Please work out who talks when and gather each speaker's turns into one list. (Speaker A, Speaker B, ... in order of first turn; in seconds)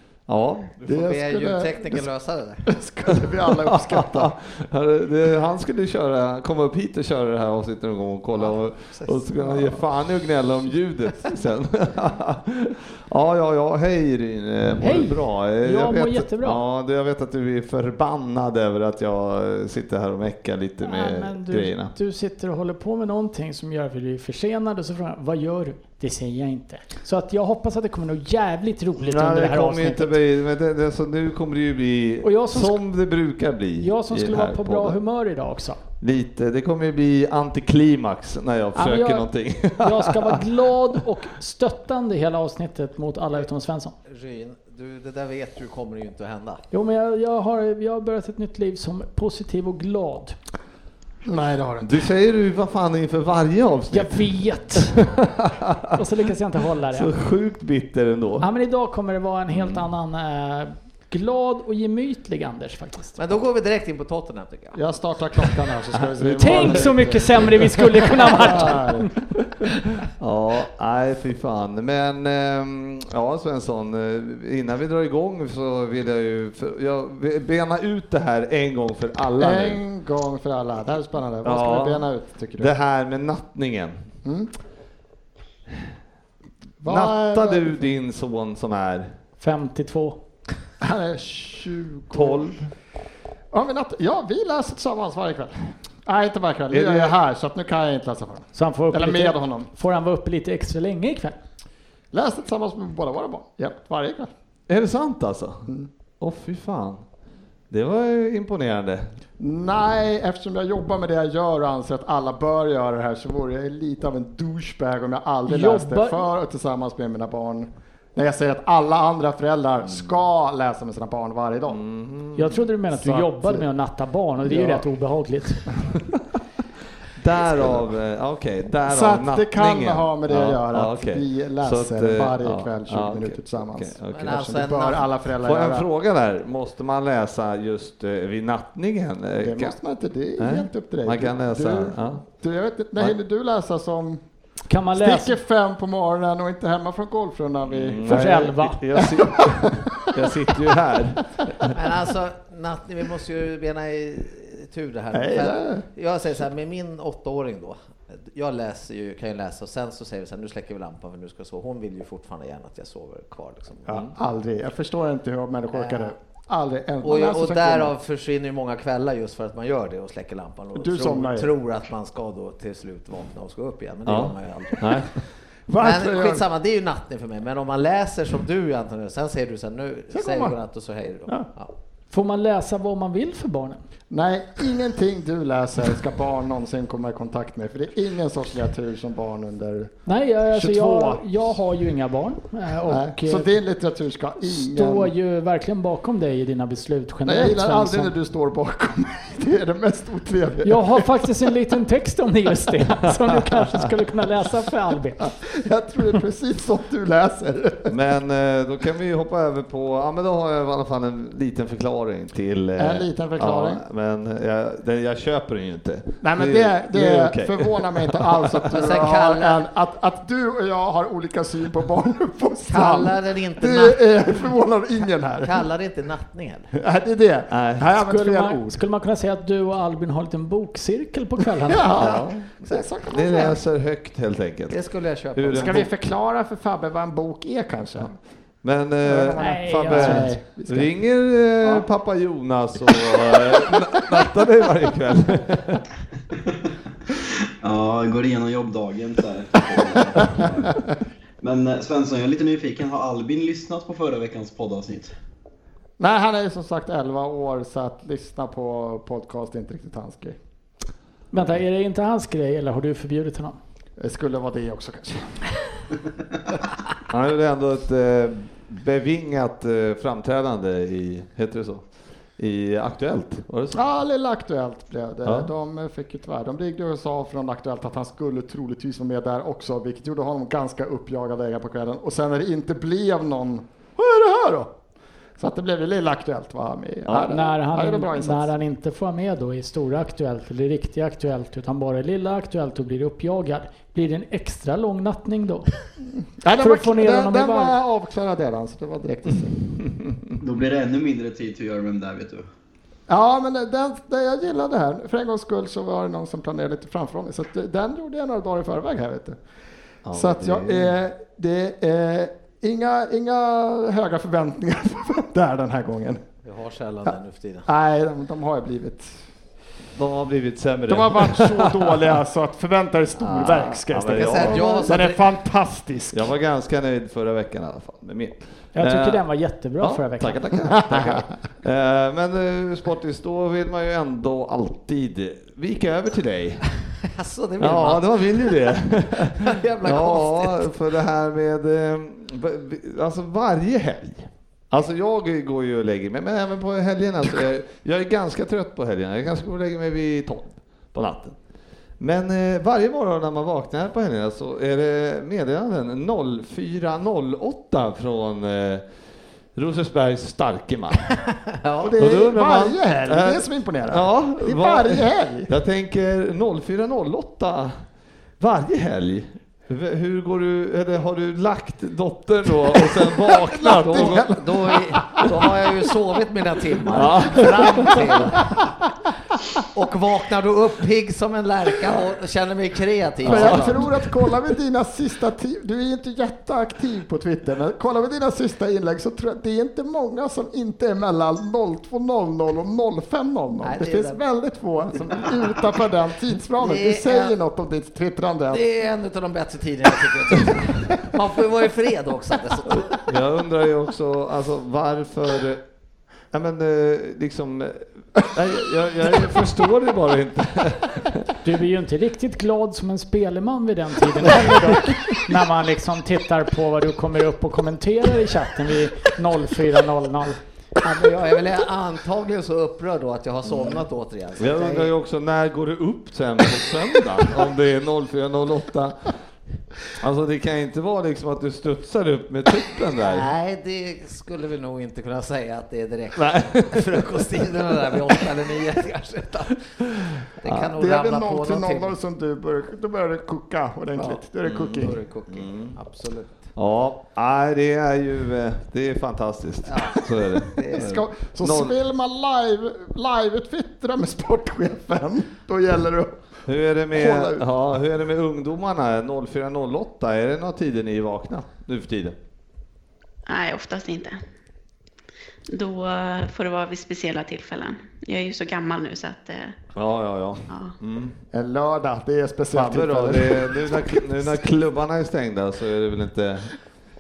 Speaker A: 0.3-0.7, 3.5-21.9, 29.0-35.0, 36.0-40.4, 51.8-56.0, 56.9-58.5, 59.5-59.9, 66.2-67.2, 70.2-79.8, 81.4-84.0, 86.8-89.1, 92.1-92.7, 96.7-97.2, 104.7-105.7, 106.2-107.0, 107.7-109.1, 121.7-122.7, 127.2-134.5, 135.4-139.8, 140.4-142.2, 147.7-151.7, 174.1-175.2, 207.9-218.7, 227.5-227.8, 232.0-232.5, 233.1-234.8, 235.3-235.9, 238.6-245.8, 267.1-271.9, 272.4-273.8, 275.2-275.5, 287.1-287.3, 310.1-311.0, 319.9-321.9, 323.2-325.0, 326.1-329.2, 329.8-336.6, 337.6-351.4, 352.0-358.9, 359.6-361.2, 362.0-367.8, 368.4-375.6, 376.9-378.1, 383.2-383.9, 402.7-405.6, 406.3-411.3, 414.2-415.0, 423.4-423.9, 424.4-429.1, 430.0-433.3, 436.2-438.3, 440.1-440.7, 444.4-445.8, 446.6-451.8, 456.5-462.2, 469.8-471.2, 472.5-476.5
Speaker B: 0.8-2.6, 8.4-9.2, 44.0-46.6, 63.2-64.8, 134.1-135.1, 151.7-164.1, 165.7-166.2, 167.0-175.1, 175.8-181.7, 218.7-219.6, 222.7-224.5, 225.4-226.7, 234.7-235.8, 316.4-317.7, 324.1-325.2, 337.1-338.8, 339.4-340.7, 361.6-362.0, 373.6-378.5, 379.8-383.9, 393.6-394.2, 396.6-397.4, 398.5-403.0, 420.8-424.9, 433.0-441.9, 444.0-444.2, 444.8-446.5, 450.6-450.9
Speaker C: 0.9-2.0, 2.7-4.3, 51.2-51.9, 64.8-69.1, 79.4-82.7, 84.2-84.5, 86.8-87.8, 90.8-92.5, 93.5-99.7, 102.1-104.3, 109.4-121.8, 123.0-123.6, 124.4-124.9, 128.9-135.9, 139.4-144.2, 145.0-150.1, 155.1-155.9, 163.9-167.9, 170.8-171.5, 175.7-176.4, 180.1-180.6, 184.1-190.0, 190.5-191.2, 192.9-195.1, 197.3-201.2, 205.5-207.9, 212.8-213.8, 216.2-225.6, 226.8-228.7, 231.7-233.6, 235.6-238.2, 239.0-240.9, 256.0-260.4, 264.0-265.4, 273.7-284.7, 285.4-288.5, 296.4-299.6, 303.1-309.4, 310.1-316.2, 317.7-319.1, 320.9-326.3, 330.9-331.2, 361.8-365.5, 373.6-374.3, 377.0-378.6, 383.2-398.6, 440.7-445.0, 450.7-456.2, 456.9-457.4, 471.3-474.0
Speaker D: 14.8-16.6, 20.8-30.1, 32.2-32.8, 33.8-35.8, 38.8-43.9, 46.7-50.4, 53.9-55.0, 55.9-57.1, 58.4-63.2, 66.3-69.1, 89.4-90.2, 98.5-101.4, 115.5-116.2, 122.4-125.7, 144.7-145.4, 148.1-148.8, 182.1-183.8, 190.1-193.5, 194.4-198.1, 200.6-205.3, 228.0-231.8, 239.4-240.4, 261.3-263.6, 287.3-295.6, 296.6-297.7, 328.8-330.6, 411.4-420.4
Speaker E: 247.6-250.8, 251.4-255.1, 300.4-302.5
Speaker F: 463.3-464.2, 465.5-469.6